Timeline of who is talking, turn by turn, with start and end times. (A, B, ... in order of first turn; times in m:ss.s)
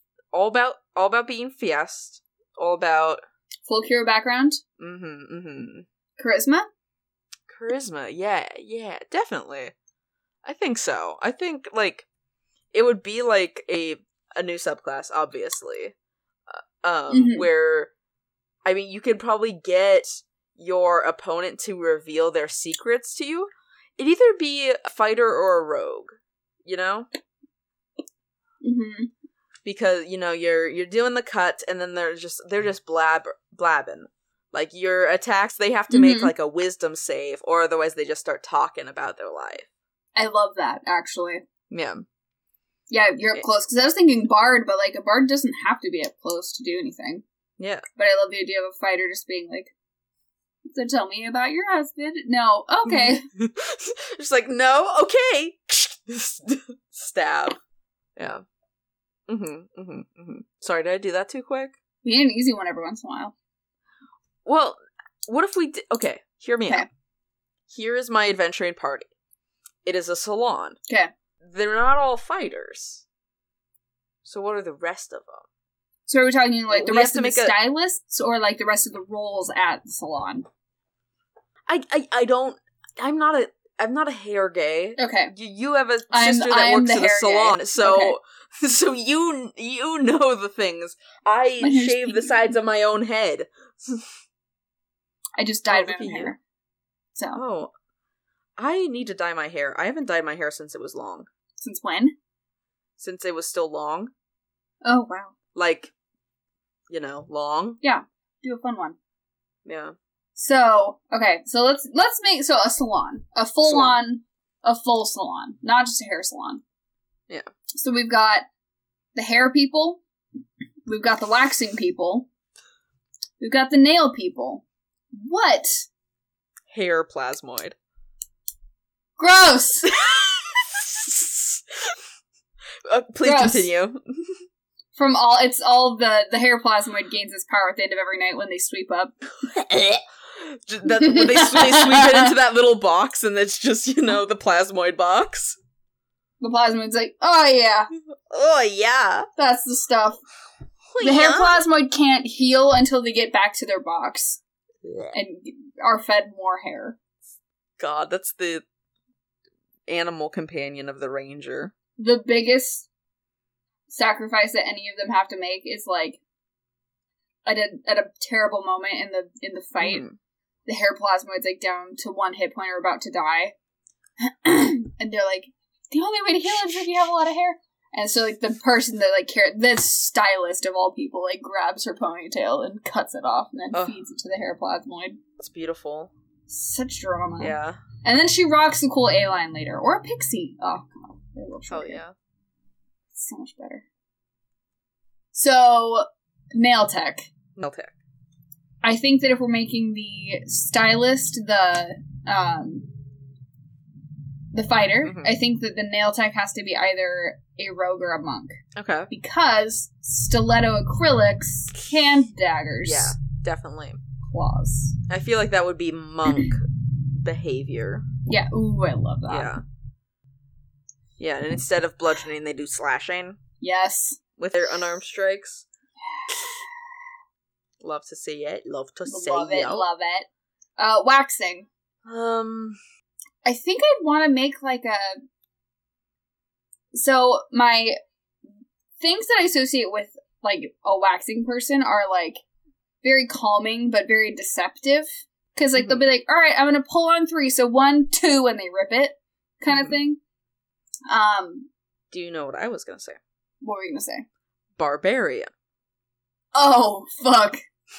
0:00.3-0:03.2 A
0:03.7-0:04.6 B
0:04.8-0:05.9 A
0:06.2-0:06.7 B
0:07.5-0:09.7 A
0:10.4-0:12.1 A
0:12.7-0:16.0 A
0:16.5-0:17.9 A
0:17.1-0:17.5 B
0:18.6-0:27.1 A
0:28.6-0:29.1 B
0:29.6-0:39.7 A
0:35.9-0:36.3 B
0:40.2-0:41.4 B
0:41.7-0:42.0 A
0:42.9-0:47.2 B
0:47.6-0:47.8 A
0:48.0-0:49.7 B
0:50.7-0:53.2 B
0:52.9-0:57.6 A
0:58.2-0:58.4 A
0:59.3-1:01.8 A
1:02.0-1:03.3 B
1:04.4-1:06.9 A
1:07.7-1:09.1 A
1:09.8-1:10.8 A
1:11.4-1:13.0 A
1:14.2-1:15.4 A
1:16.1-1:20.4 B
1:16.7-1:17.6 A
1:21.7-1:34.1 A
1:25.0-1:25.3 B
1:26.1-1:28.2 B
1:31.6-1:32.4 B
1:35.4-1:36.4 B
1:35.7-1:36.4 A
1:37.4-1:37.7 A
1:38.6-1:41.3 A
1:41.6-1:42.2 B
1:43.0-1:44.1 A
1:44.8-1:45.3 B
1:45.6-1:45.9 A
1:46.9-1:47.8 A
1:47.8-1:49.0 B
1:49.6-1:50.0 A
1:50.4-1:56.6 B
1:53.6-1:54.0 A
1:57.8-1:58.5 B
1:59.2-2:00.0 B
2:00.9-2:02.3 B
2:03.4-2:04.6 B
2:05.2-2:05.9 B
2:06.7-2:07.8 A
2:09.2-2:10.0 B
2:09.9-2:12.0 A
2:12.9-2:14.4 A
2:13.2-2:13.7 B
2:15.0-2:19.2 B
2:19.4-2:25.6 A
2:20.9-2:22.3 B
2:26.4-2:27.9 B
2:28.3-2:29.3 A
2:29.4-2:30.2 B
2:30.9-2:31.6 A
2:31.0-2:34.4 B
2:34.8-2:35.2 A
2:35.1-2:37.0 B
2:37.8-2:38.6 A
2:39.9-2:41.7 A
2:42.0-2:42.9 B
2:43.9-2:46.2 B
2:47.5-2:50.0 B
2:49.8-2:50.2 A
2:50.7-2:53.5 B
2:54.2-3:05.2 B
3:05.4-3:06.1 A
3:06.5-3:12.0 B
3:07.4-3:07.8 A
3:11.7-3:12.1 A
3:13.1-3:13.8 B
3:15.3-3:17.3 B
3:17.6-3:17.9 A
3:18.8-3:22.9 B
3:24.5-3:28.5 B
3:25.0-3:25.4 A
3:28.8-3:29.1 A
3:29.1-3:33.2 B
3:32.8-3:34.0 A
3:34.3-3:35.0 B
3:35.1-3:38.1 A
3:38.3-3:39.5 B
3:39.3-3:39.6 A
3:41.2-3:43.4 A
3:43.6-3:44.2 B
3:44.4-3:45.6 A
3:46.1-3:46.6 B
3:47.8-3:49.9 A
3:49.1-3:51.7 B
3:52.0-3:52.8 A
3:53.4-3:55.2 B
3:56.9-3:58.0 B
3:59.0-4:02.4 B
4:03.0-4:10.2 B
4:05.8-4:06.0 A
4:09.7-4:10.0 A
4:11.1-4:11.7 B
4:12.1-4:13.2 A
4:13.6-4:14.2 B
4:14.8-4:15.5 A
4:16.5-4:17.6 B